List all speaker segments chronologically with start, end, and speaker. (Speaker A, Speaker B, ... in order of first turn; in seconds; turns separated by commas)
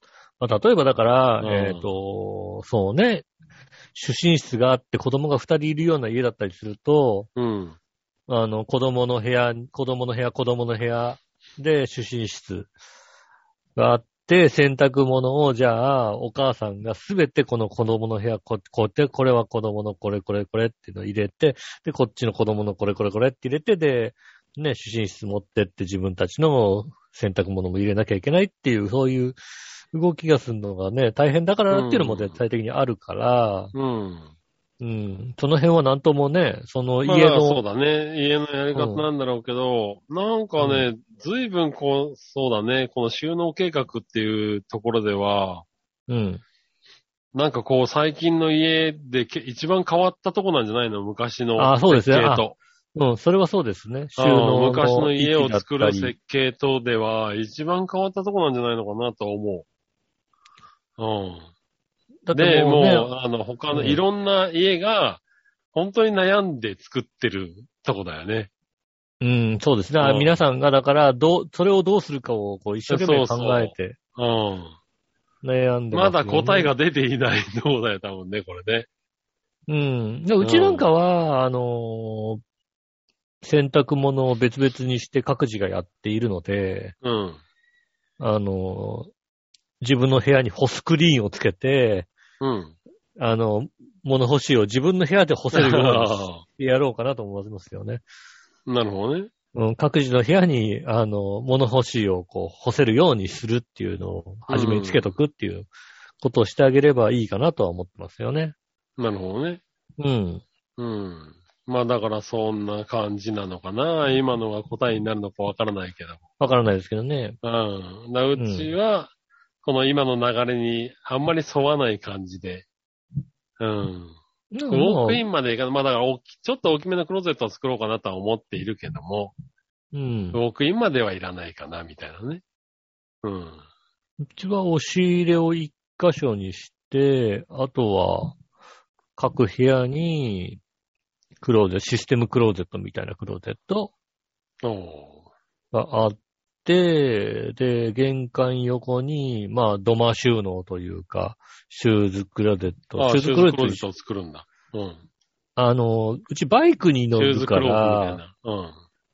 Speaker A: 0.4-3.3, Speaker B: 1.4-1.9, Speaker A: 3.9-7.3, Speaker B: 7.3-7.8, Speaker A: 8.3-12.7, Speaker A: 13.8-29.4, Speaker A: 29.9-33.7, Speaker B: 31.7-32.4, Speaker B: 33.7-34.3, Speaker A: 34.8-37.6, Speaker B: 37.0-45.6, Speaker A: 38.7-39.1, Speaker A: 40.6-40.9, Speaker A: 46.1-46.4, Speaker B: 47.3-52.5, Speaker A: 51.6-56.1, Speaker B: 54.2-59.6, Speaker B: 61.0-61.5, Speaker A: 62.3-63.1, Speaker B: 62.3-65.2, Speaker A: 63.7-64.0, Speaker B: 65.7-68.5, Speaker A: 69.2-74.0, Speaker B: 70.0-70.3, Speaker B: 72.9-74.8, Speaker A: 75.4-76.7, Speaker B: 75.9-78.9, Speaker A: 79.7-82.4, Speaker B: 80.4-80.8, Speaker A: 83.4-86.9, Speaker B: 87.0-87.4, Speaker A: 88.2-89.1, Speaker A: 89.8-92.1, Speaker B: 92.4-92.8, Speaker A: 93.2-98.0, Speaker B: 95.5-96.4, Speaker B: 98.7-99.3, Speaker A: 99.5-105.7, Speaker B: 104.5-105.1, Speaker A: 106.2-108.5, Speaker B: 109.0-109.6, Speaker A: 110.0-110.4, Speaker B: 110.8-116.2, Speaker A: 116.4-117.4, Speaker B: 117.4-119.1, Speaker A: 118.3-118.7, Speaker B: 119.6-122.7, Speaker B: 123.6-124.2, Speaker A: 124.5-125.2, Speaker B: 124.7-129.3, Speaker A: 129.9-130.4, Speaker B: 130.3-132.4, Speaker B: 133.2-133.6, Speaker A: 134.2-138.4, Speaker A: 139.2-140.6, Speaker A: 141.4-143.9, Speaker B: 144.6-145.2, Speaker A: 145.7-153.8, Speaker B: 153.0-155.0, Speaker A: 155.6-158.2, Speaker B: 157.1-158.7